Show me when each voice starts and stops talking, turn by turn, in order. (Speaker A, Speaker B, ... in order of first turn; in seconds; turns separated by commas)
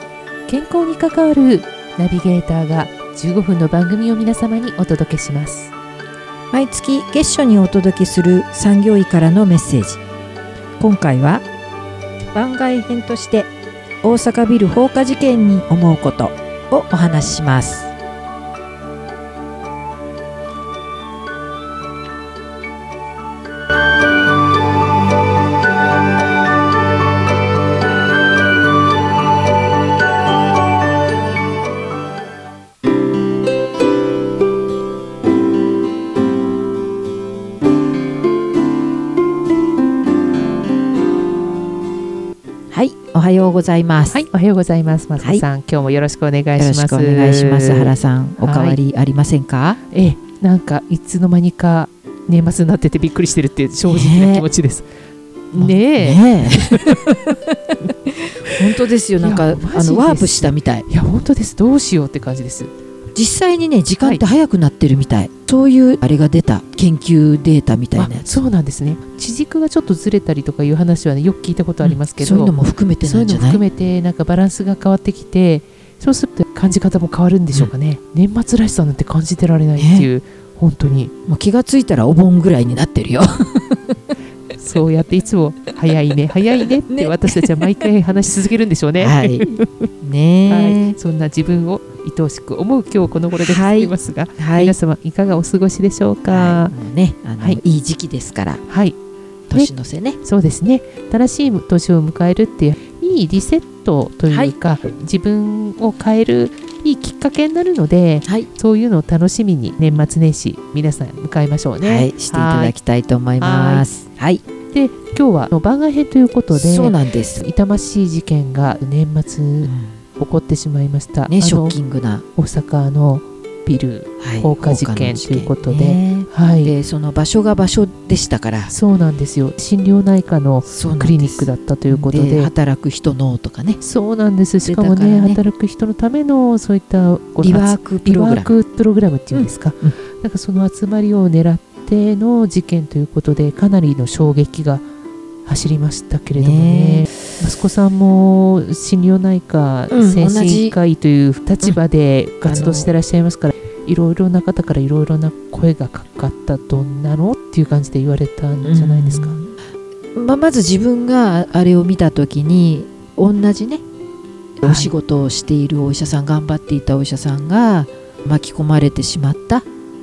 Speaker A: 0.5-5.7, Speaker B: 6.5-10.0, Speaker B: 10.8-11.4, Speaker B: 12.3-13.5, Speaker B: 14.0-17.9, Speaker B: 42.7-44.2, Speaker A: 44.1-48.8, Speaker B: 46.6-49.8, Speaker A: 49.9-54.9, Speaker B: 53.8-54.5, Speaker B: 55.5-57.5, Speaker A: 55.5-57.2, Speaker B: 58.0-60.8, Speaker A: 59.2-62.7, Speaker B: 63.1-68.4, Speaker A: 68.0-81.1, Speaker B: 71.8-73.6, Speaker B: 79.8-80.1, Speaker B: 81.3-84.0, Speaker A: 84.5-89.9, Speaker B: 86.9-87.7, Speaker B: 89.0-91.0, Speaker A: 90.5-96.7, Speaker B: 93.4-94.8, Speaker B: 96.3-98.6, Speaker A: 98.7-99.0, Speaker B: 99.5-100.2, Speaker A: 100.2-112.7, Speaker B: 104.3-104.5, Speaker B: 111.8-114.4, Speaker A: 113.4-113.9, Speaker A: 114.7-121.8, Speaker B: 116.5-117.4, Speaker B: 119.6-119.9, Speaker B: 121.3-122.2, Speaker A: 122.3-126.7, Speaker B: 124.2-128.7, Speaker A: 128.7-132.5, Speaker B: 130.7-133.8, Speaker A: 133.8-144.8, Speaker B: 134.7-135.4, Speaker B: 137.4-138.5, Speaker B: 139.3-139.9, Speaker A: 145.4-159.4, Speaker B: 146.3-147.1, Speaker B: 149.9-150.8, Speaker B: 152.4-152.9, Speaker B: 158.6-159.5, Speaker B: 160.1-163.8, Speaker B: 164.6-169.7, Speaker A: 164.6-164.9